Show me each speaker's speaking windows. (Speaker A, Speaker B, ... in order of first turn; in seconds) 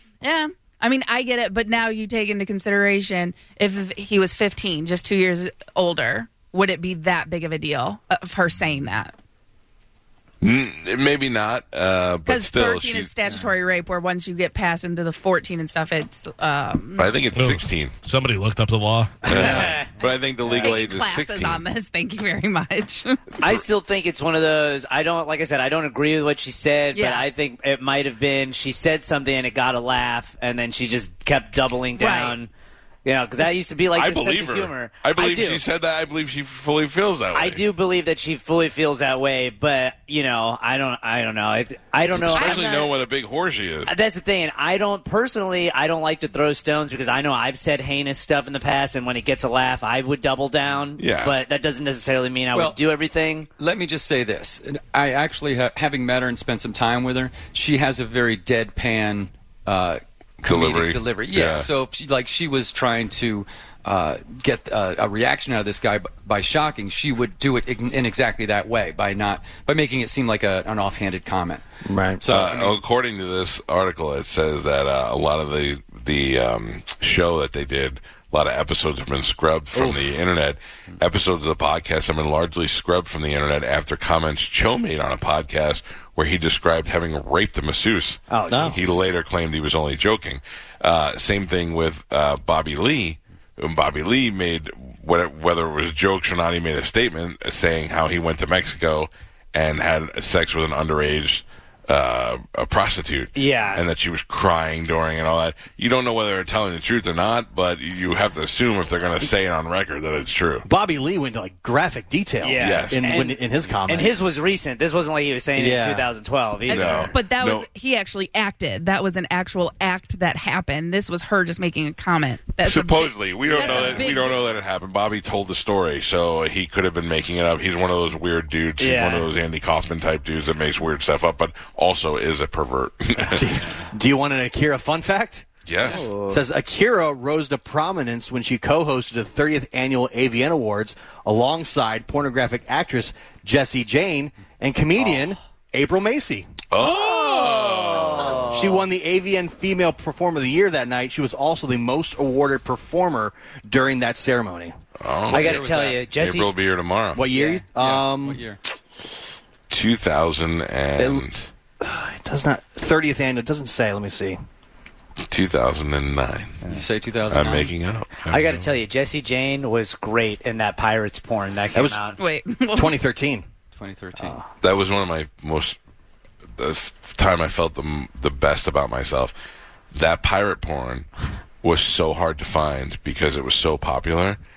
Speaker A: 0.2-9.1, 12.2-17.1, 20.5-23.2, 26.9-27.3, 32.0-32.4, 42.3-42.6, 116.7-124.5, 172.2-173.0
Speaker B: 10.4-13.1, 17.0-18.0, 19.3-21.6, 33.9-37.6, 42.1-43.9, 51.0-51.4, 60.5-61.7, 72.3-110.7, 112.6-113.1, 116.7-117.7, 122.6-133.5, 135.7-136.1, 146.7-148.6, 155.0-157.2, 159.7-161.5, 165.2-166.7, 167.3-168.7, 174.6-175.8, 176.6-179.3, 179.9-181.1, 181.6-184.4
Speaker C: 17.3-19.3
Speaker D: 19.3-19.9, 23.4-32.5, 33.0-35.6, 37.3-42.9, 43.9-53.5, 88.3-89.1, 103.3-103.8, 112.4-117.1, 123.5-124.1, 128.8-129.3, 135.8-136.4, 146.8-148.9, 155.3-156.5, 157.3-157.6, 168.3-172.2
Speaker E: 52.5-52.8, 53.6-71.7, 72.2-72.8, 155.3-156.0, 157.7-158.6, 166.7-167.7, 173.7-174.4
Speaker F: 71.8-72.2, 79.8-80.0, 88.5-88.8, 110.7-114.2, 115.6-116.1, 133.3-135.5, 136.2-146.5, 148.5-154.8, 157.2-158.4, 161.0-161.2, 161.8-164.4, 171.7-172.0, 172.7-173.5